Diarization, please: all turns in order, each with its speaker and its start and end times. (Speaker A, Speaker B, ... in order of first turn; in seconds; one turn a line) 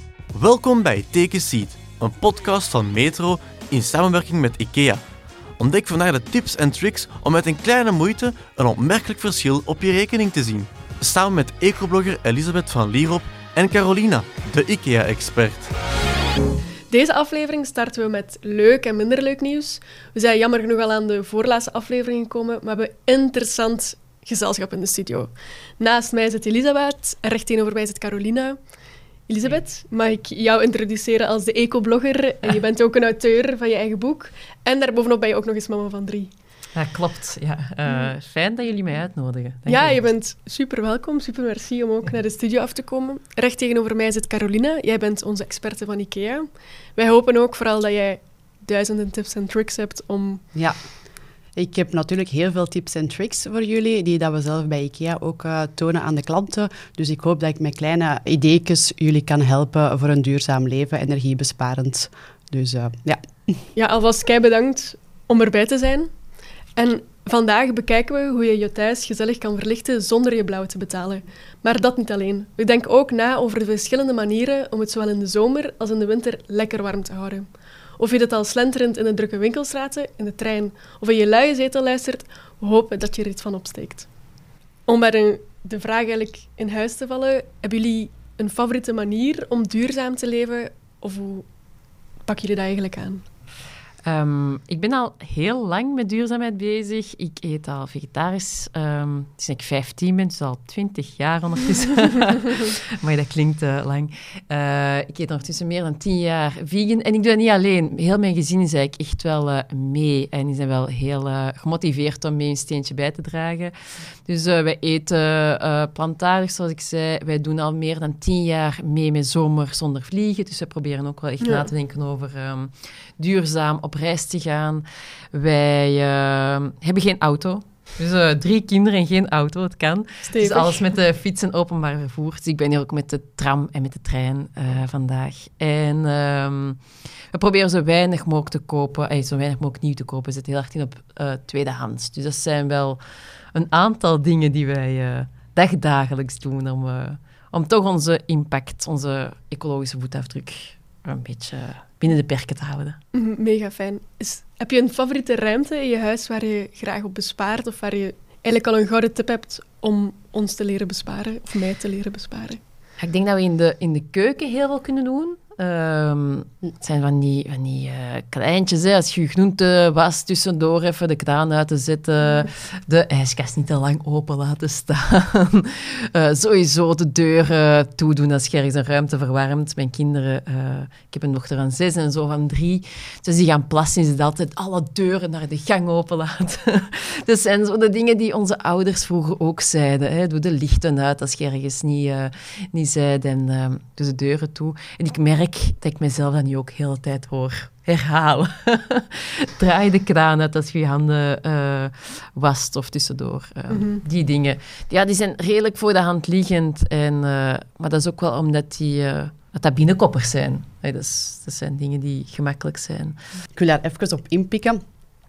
Speaker A: 0.3-5.0
Speaker A: 5.6-15.7
Speaker B: 16.9-28.6
Speaker B: 29.3-36.3
Speaker C: 36.7-40.0
Speaker B: 39.7-50.5
Speaker D: 51.5-63.2
Speaker B: 63.8-66.1
Speaker B: 66.8-77.5
Speaker B: 78.0-84.1
Speaker B: 84.9-91.5
Speaker B: 92.3-93.2
Speaker C: 94.0-113.7
Speaker C: 114.2-143.0
Speaker B: 121.4-121.7
Speaker B: 130.3-130.8
Speaker C: 143.5-153.0
Speaker B: 153.1-162.6
Speaker C: 163.0-213.2
Speaker B: 203.7-204.0
Speaker D: 213.6-214.8